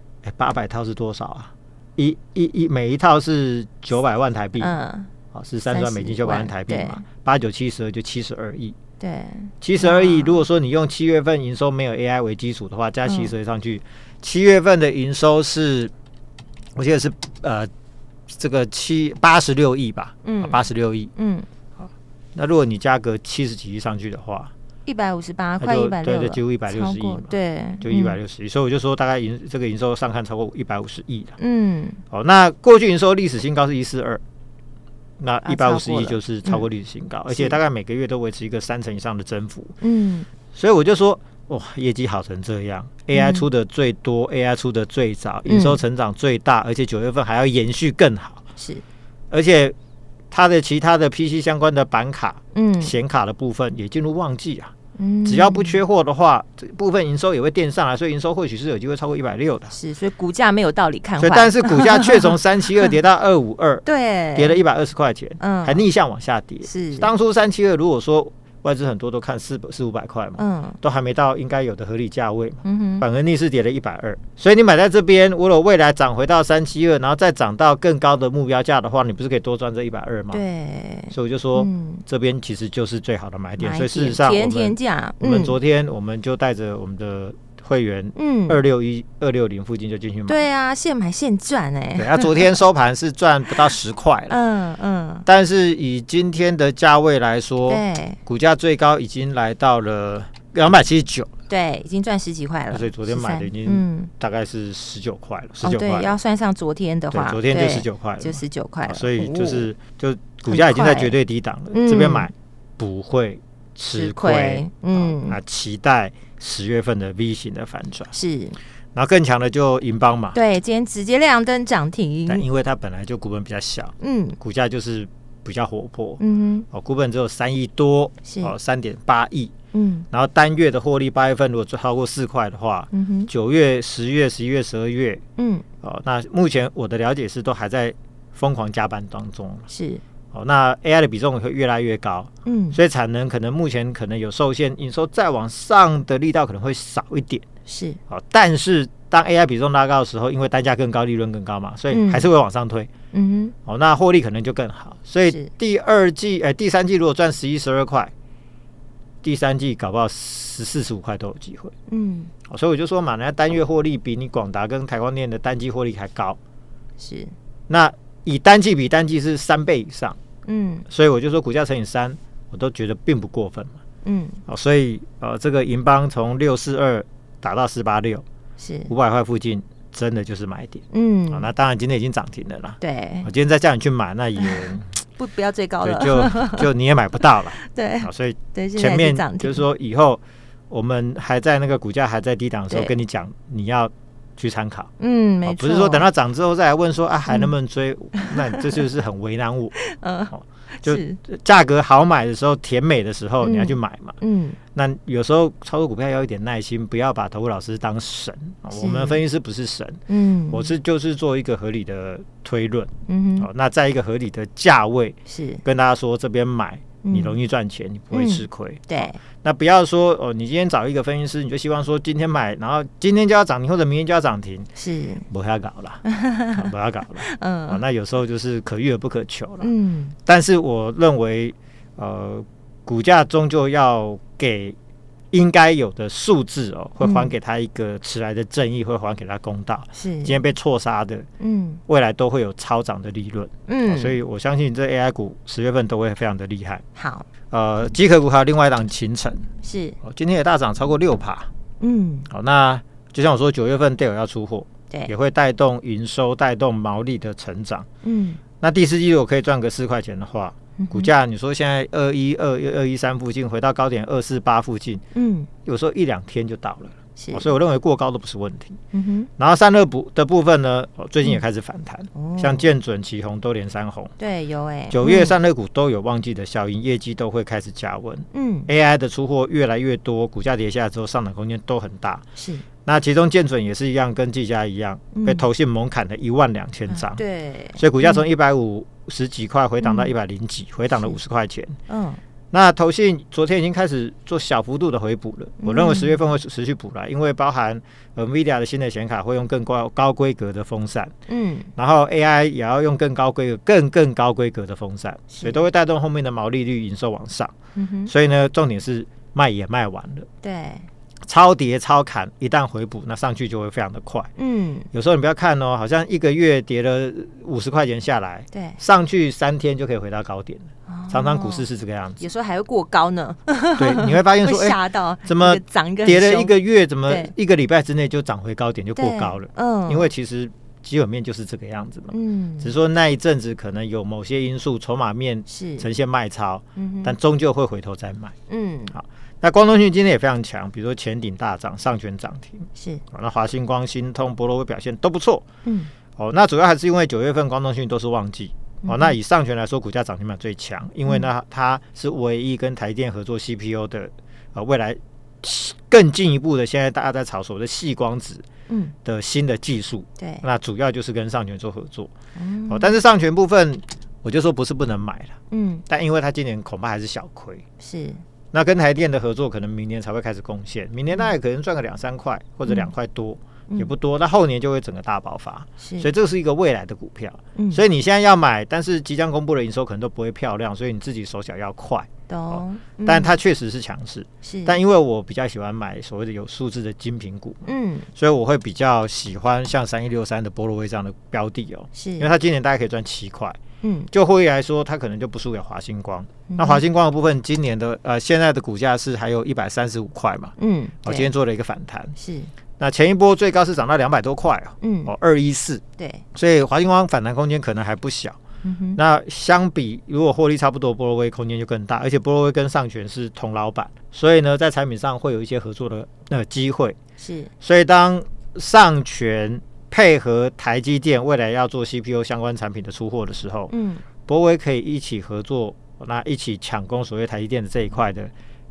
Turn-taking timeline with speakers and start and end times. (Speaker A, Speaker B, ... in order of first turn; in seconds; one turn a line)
Speaker A: 0.2-4.8
Speaker B: 4.6-5.1
Speaker A: 5.3-8.8
Speaker B: 5.7-7.0
Speaker B: 9.0-10.4
Speaker A: 9.6-15.9
Speaker B: 13.1-13.3
Speaker A: 16.8-17.7
Speaker A: 18.3-21.1
Speaker B: 20.2-21.5
Speaker A: 21.8-24.5
Speaker B: 24.8-28.2
Speaker A: 25.6-31.4
Speaker B: 31.4-32.0
Speaker A: 32.1-34.2
Speaker A: 35.2-39.7
Speaker B: 35.4-36.6
Speaker B: 37.3-37.6
Speaker B: 39.8-40.3
Speaker A: 40.5-48.4
Speaker B: 43.1-43.5
Speaker B: 45.5-45.8
Speaker B: 48.6-48.8
Speaker A: 49.3-49.7
Speaker A: 50.3-54.7
Speaker B: 52.5-52.9
Speaker B: 55.0-55.8
Speaker A: 55.2-59.7
Speaker B: 59.7-62.3
Speaker A: 61.2-80.4
Speaker B: 63.8-64.6
Speaker B: 65.4-65.8
Speaker B: 66.6-67.1
Speaker B: 70.4-70.8
Speaker B: 72.6-73.0
Speaker B: 80.3-82.0
Speaker A: 81.1-90.4
Speaker B: 83.6-85.6
Speaker B: 88.2-88.6
Speaker B: 90.3-92.5
Speaker A: 92.0-94.4
Speaker B: 94.3-95.2
Speaker A: 95.2-101.3
Speaker B: 97.7-98.2
Speaker B: 101.5-104.1
Speaker A: 102.7-106.2
Speaker B: 105.6-109.7
Speaker A: 107.1-118.1
Speaker B: 110.5-111.1
Speaker B: 111.7-112.3
Speaker B: 113.9-115.4
Speaker B: 118.1-118.6
Speaker A: 118.9-120.4
Speaker B: 120.3-122.4
Speaker A: 122.3-129.5
Speaker B: 124.0-124.4
Speaker B: 126.2-126.7
Speaker B: 128.2-128.5
Speaker B: 129.7-130.1
Speaker A: 130.1-135.2
Speaker B: 132.9-133.3
Speaker B: 135.4-135.6
Speaker A: 135.8-139.7
Speaker B: 139.7-140.0
Speaker A: 140.3-147.4
Speaker B: 142.4-142.8
Speaker B: 147.7-148.0
Speaker A: 148.1-152.9
Speaker B: 151.9-152.3
Speaker B: 153.1-153.5
Speaker A: 153.7-158.1
Speaker A: 159.2-161.7
Speaker B: 161.9-162.3
Speaker A: 162.5-166.4
Speaker B: 167.0-167.3
Speaker A: 167.7-170.2
Speaker B: 170.4-170.8
Speaker A: 170.9-173.8
Speaker B: 174.0-174.4
Speaker A: 174.5-178.2
Speaker B: 178.6-178.9
Speaker A: 178.9-185.0
Speaker B: 180.9-181.5
Speaker B: 182.8-183.3
Speaker B: 184.4-186.7
Speaker A: 185.8-194.9
Speaker B: 187.6-189.7
Speaker B: 195.0-196.1
Speaker A: 195.4-199.8
Speaker B: 198.2-198.7
Speaker B: 199.8-201.2
Speaker A: 200.3-204.2
Speaker B: 203.4-204.6
Speaker A: 204.7-224.7
Speaker B: 208.7-209.2
Speaker B: 210.1-210.7
Speaker B: 213.1-213.5
Speaker B: 215.3-215.6
Speaker B: 217.0-217.3
Speaker B: 218.1-219.2
Speaker B: 224.8-225.2
Speaker A: 225.3-229.7
Speaker B: 226.1-226.6
Speaker B: 227.2-227.8
Speaker B: 229.6-230.1
Speaker A: 230.2-234.8
Speaker A: 235.3-241.3
Speaker B: 237.0-237.3
Speaker B: 239.9-240.4
Speaker B: 241.4-241.8
Speaker A: 241.9-246.8
Speaker B: 243.7-244.2
Speaker B: 246.9-247.2
Speaker A: 247.5-249.4
Speaker B: 249.6-250.0
Speaker A: 250.0-251.5
Speaker B: 251.8-252.3
Speaker A: 252.3-257.9
Speaker B: 258.0-258.4
Speaker A: 258.6-265.0
Speaker B: 260.8-261.1
Speaker B: 265.1-265.5
Speaker A: 265.6-268.8
Speaker B: 267.2-267.5
Speaker B: 268.9-269.3
Speaker A: 269.4-274.1
Speaker B: 272.1-272.7
Speaker B: 274.2-275.4
Speaker A: 274.9-282.2
Speaker B: 278.3-278.7
Speaker B: 282.4-282.6
Speaker A: 282.8-287.2
Speaker B: 285.1-285.5
Speaker B: 286.9-288.2
Speaker A: 287.8-291.8
Speaker B: 289.8-290.1
Speaker B: 291.9-292.2
Speaker A: 292.5-301.1
Speaker B: 295.6-296.2
Speaker B: 301.3-301.7
Speaker A: 301.8-307.5
Speaker B: 305.3-305.6
Speaker B: 307.8-308.1
Speaker A: 308.1-310.3
Speaker B: 310.4-310.9
Speaker A: 311.3-314.3
Speaker B: 314.4-314.9
Speaker A: 314.9-322.2
Speaker B: 318.5-318.8
Speaker B: 320.9-321.6
Speaker B: 322.2-326.5
Speaker A: 323.8-338.3
Speaker B: 327.1-327.3
Speaker B: 328.9-330.1
Speaker B: 332.1-332.7
Speaker B: 335.5-335.9
Speaker B: 336.8-337.1
Speaker B: 338.5-338.9
Speaker A: 338.9-345.5
Speaker B: 342.8-343.0
Speaker B: 345.6-345.9
Speaker A: 346.2-358.4
Speaker B: 348.8-349.1
Speaker B: 358.7-358.9
Speaker A: 359.0-362.1
Speaker B: 360.2-360.4
Speaker B: 362.4-363.0
Speaker A: 362.7-365.4
Speaker B: 365.5-365.8
Speaker A: 365.9-367.6
Speaker B: 367.8-368.2
Speaker A: 368.5-393.6
Speaker B: 375.8-376.1
Speaker B: 377.5-377.8
Speaker B: 382.3-383.4
Speaker B: 384.4-384.8
Speaker B: 387.6-388.1
Speaker B: 391.9-392.3
Speaker B: 393.8-394.1
Speaker A: 394.1-402.1
Speaker B: 396.5-396.8
Speaker B: 400.6-401.3
Speaker B: 402.2-402.5
Speaker A: 402.8-405.8
Speaker B: 404.8-405.1
Speaker B: 406.0-406.2
Speaker A: 406.3-408.4
Speaker B: 408.6-409.0
Speaker A: 408.9-417.0
Speaker B: 417.2-417.5
Speaker A: 417.6-423.7
Speaker B: 423.7-424.0
Speaker A: 424.2-428.3